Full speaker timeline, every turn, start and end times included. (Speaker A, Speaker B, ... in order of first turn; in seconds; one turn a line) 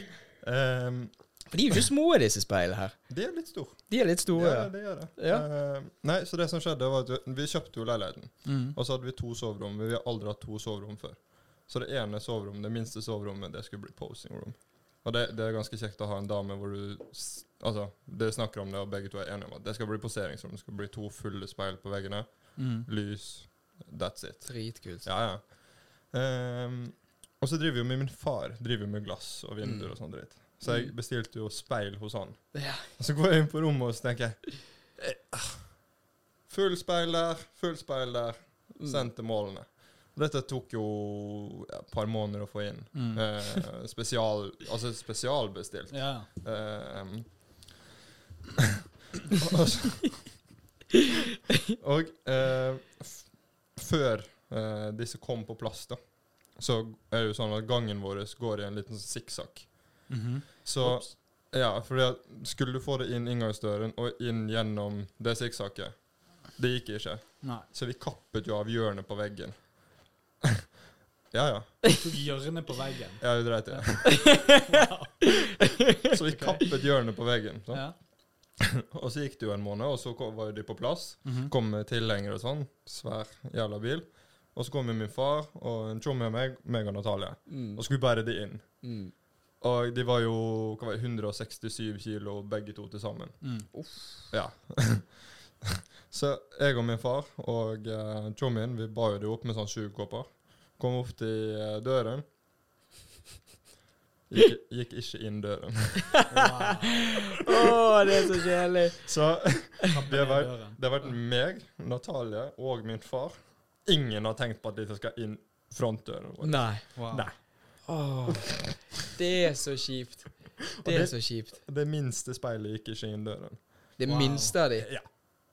Speaker A: 0.4-1.6
Speaker B: 1.5-5.5
Speaker A: 3.1-35.9
Speaker C: 8.4-8.8
Speaker C: 22.6-22.9
Speaker B: 24.4-25.1
Speaker B: 29.6-30.9
Speaker B: 32.5-32.9
Speaker A: 36.5-47.8
Speaker B: 38.8-39.1
Speaker C: 42.9-43.3
Speaker C: 45.9-46.3
Speaker A: 49.5-50.2
Speaker A: 51.8-70.4
Speaker C: 60.1-61.1
Speaker C: 67.4-67.7
Speaker A: 71.3-72.1
Speaker C: 72.0-75.3
Speaker A: 73.2-74.4
Speaker A: 76.1-102.2
Speaker C: 76.3-76.7
Speaker C: 77.7-78.0
Speaker C: 81.2-81.5
Speaker B: 87.5-89.1
Speaker C: 93.4-93.7
Speaker B: 93.7-94.2
Speaker A: 104.3-106.2
Speaker C: 106.3-107.1
Speaker B: 107.4-109.6
Speaker A: 109.0-118.5
Speaker C: 109.9-111.2
Speaker B: 116.4-121.6
Speaker C: 117.0-117.3
Speaker A: 120.8-124.0
Speaker B: 124.0-125.2
Speaker C: 124.0-124.6
Speaker A: 124.8-125.1